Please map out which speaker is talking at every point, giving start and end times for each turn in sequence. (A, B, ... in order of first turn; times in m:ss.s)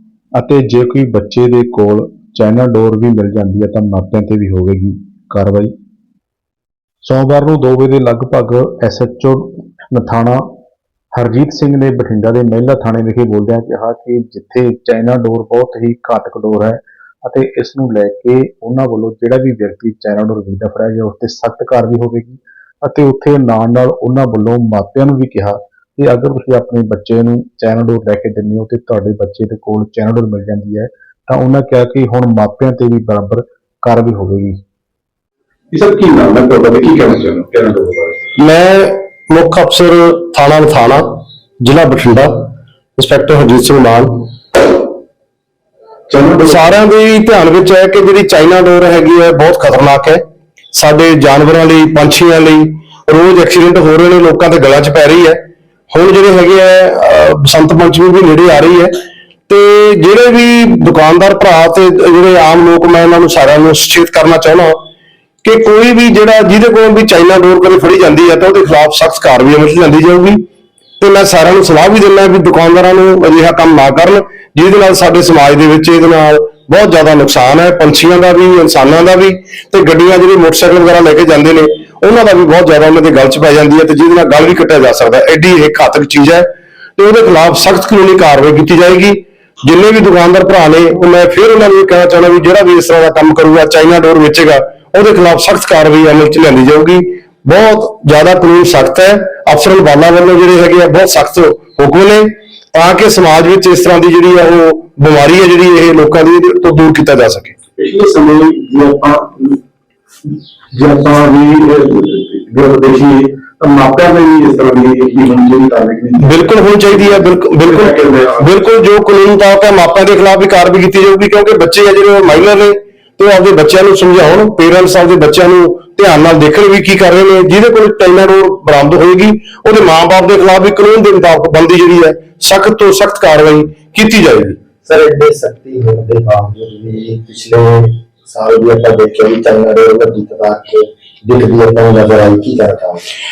0:00.4-0:05.7 A
0:07.0-0:10.5 A
0:11.1-0:34.6 A
0:35.7-0:38.3 B
0:38.4-0:42.4 C
0:43.0-0:44.9 C
0:46.1-0:46.8 B
0:46.3-0:50.2 C
0:50.7-0:55.4 C
0:55.9-0:59.0 C
0:59.5-1:04.8 C
1:05.4-1:10.4 C
1:11.0-1:47.6 C
1:47.8-1:49.6 B
1:50.7-1:56.3 B
1:56.2-2:14.6 C
1:57.0-1:58.4 B
2:14.8-2:23.0 D